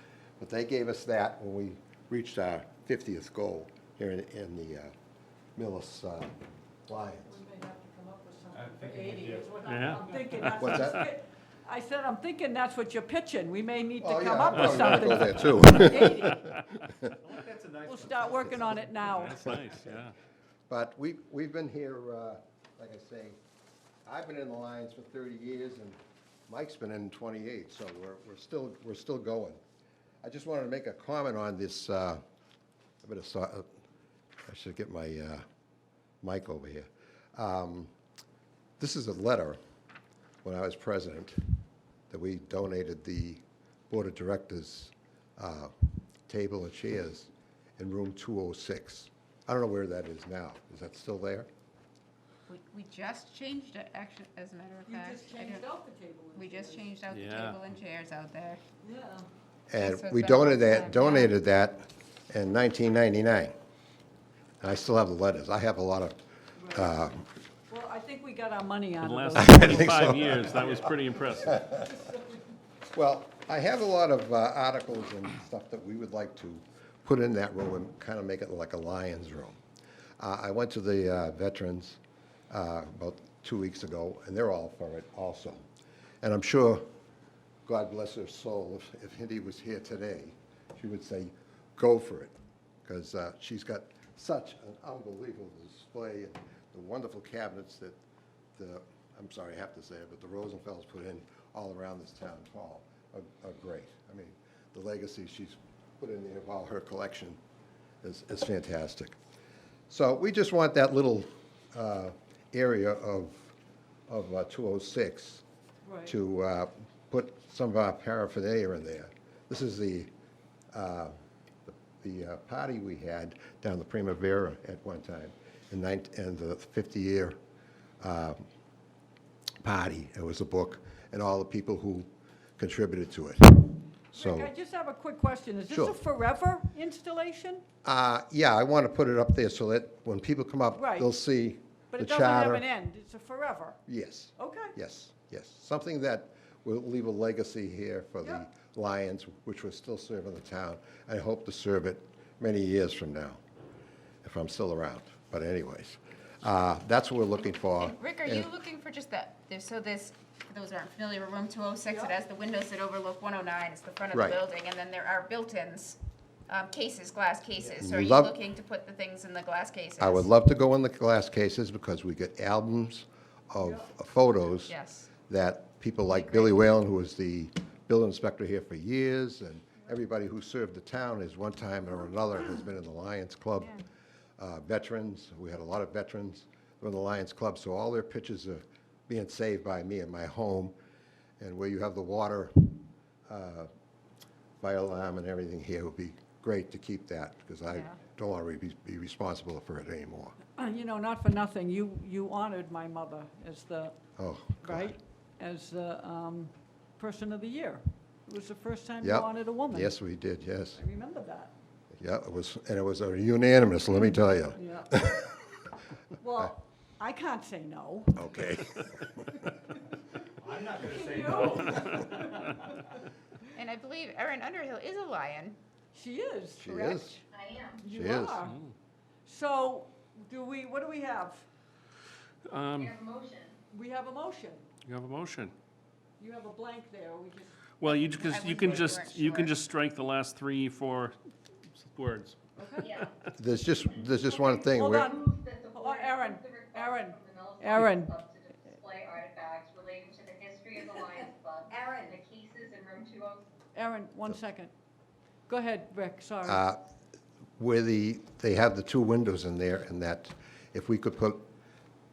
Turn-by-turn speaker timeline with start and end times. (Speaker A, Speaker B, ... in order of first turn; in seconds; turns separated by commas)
Speaker A: 0.4-4.9, Speaker A: 5.6-6.4, Speaker A: 6.9-7.4, Speaker B: 7.2-16.5, Speaker C: 8.5-10.3, Speaker D: 9.6-10.0, Speaker A: 10.6-11.1, Speaker A: 14.0-17.1, Speaker D: 14.6-15.1, Speaker C: 17.2-18.7, Speaker B: 17.8-19.6, Speaker D: 19.0-20.1, Speaker A: 20.7-23.4, Speaker A: 24.1-26.0, Speaker A: 26.5-29.6, Speaker A: 30.2-32.2, Speaker A: 33.0-33.7, Speaker A: 34.5-35.4, Speaker A: 36.2-37.9, Speaker A: 38.8-39.6, Speaker A: 40.4-41.4, Speaker A: 42.1-45.7, Speaker A: 46.3-51.5, Speaker E: 52.5-55.7, Speaker B: 54.9-57.0, Speaker E: 56.4-58.6, Speaker D: 57.1-57.6, Speaker B: 58.8-59.3, Speaker A: 59.7-63.5, Speaker E: 59.8-61.3, Speaker A: 64.6-67.3, Speaker B: 66.6-66.9, Speaker B: 67.7-69.7, Speaker D: 69.0-71.6, Speaker A: 69.3-70.8, Speaker A: 71.5-72.0, Speaker B: 71.7-72.2, Speaker A: 73.0-79.6, Speaker A: 80.2-82.0, Speaker A: 82.5-85.6, Speaker A: 86.2-86.9, Speaker A: 87.7-92.3, Speaker A: 92.8-98.0, Speaker A: 98.6-107.4, Speaker A: 108.0-109.2, Speaker A: 109.9-113.5, Speaker A: 114.1-115.4, Speaker B: 115.8-116.2, Speaker A: 116.1-120.1, Speaker A: 120.7-121.2, Speaker A: 121.7-127.4, Speaker A: 128.0-128.4, Speaker A: 129.6-134.5, Speaker B: 134.2-137.6, Speaker A: 135.7-136.0, Speaker A: 137.8-142.7, Speaker B: 140.7-141.1, Speaker B: 141.9-143.8, Speaker A: 143.9-153.4, Speaker B: 144.4-144.8, Speaker A: 154.2-158.5, Speaker E: 157.8-170.3, Speaker B: 161.9-162.1, Speaker A: 164.1-164.4, Speaker A: 167.8-168.3, Speaker A: 170.0-183.8, Speaker B: 173.6-173.9, Speaker E: 174.7-175.1, Speaker E: 176.1-176.7, Speaker A: 184.4-190.7, Speaker A: 191.4-192.8, Speaker A: 193.3-193.7, Speaker A: 194.6-200.4, Speaker B: 200.6-204.0, Speaker A: 204.2-204.9, Speaker B: 204.6-209.9, Speaker A: 209.0-210.8, Speaker B: 210.8-211.5, Speaker A: 211.9-215.3, Speaker B: 214.5-215.2, Speaker B: 216.2-218.3, Speaker A: 218.1-219.4, Speaker C: 220.4-222.7, Speaker B: 220.5-222.4, Speaker E: 223.6-225.6, Speaker B: 225.9-227.2, Speaker A: 226.6-227.2, Speaker F: 227.3-227.8, Speaker B: 227.7-228.6, Speaker A: 227.9-228.4, Speaker D: 228.4-228.7, Speaker B: 229.3-231.4, Speaker D: 232.5-233.0, Speaker F: 232.8-233.6, Speaker B: 233.7-234.7, Speaker D: 234.8-235.5, Speaker B: 236.2-237.7, Speaker D: 237.8-241.2, Speaker E: 238.2-239.5, Speaker D: 241.8-243.2, Speaker B: 242.6-242.9, Speaker A: 243.3-245.2, Speaker F: 244.2-253.4, Speaker B: 244.3-248.1, Speaker E: 251.7-252.2, Speaker B: 253.8-254.7, Speaker B: 255.5-256.6, Speaker A: 256.4-256.8, Speaker A: 257.6-261.5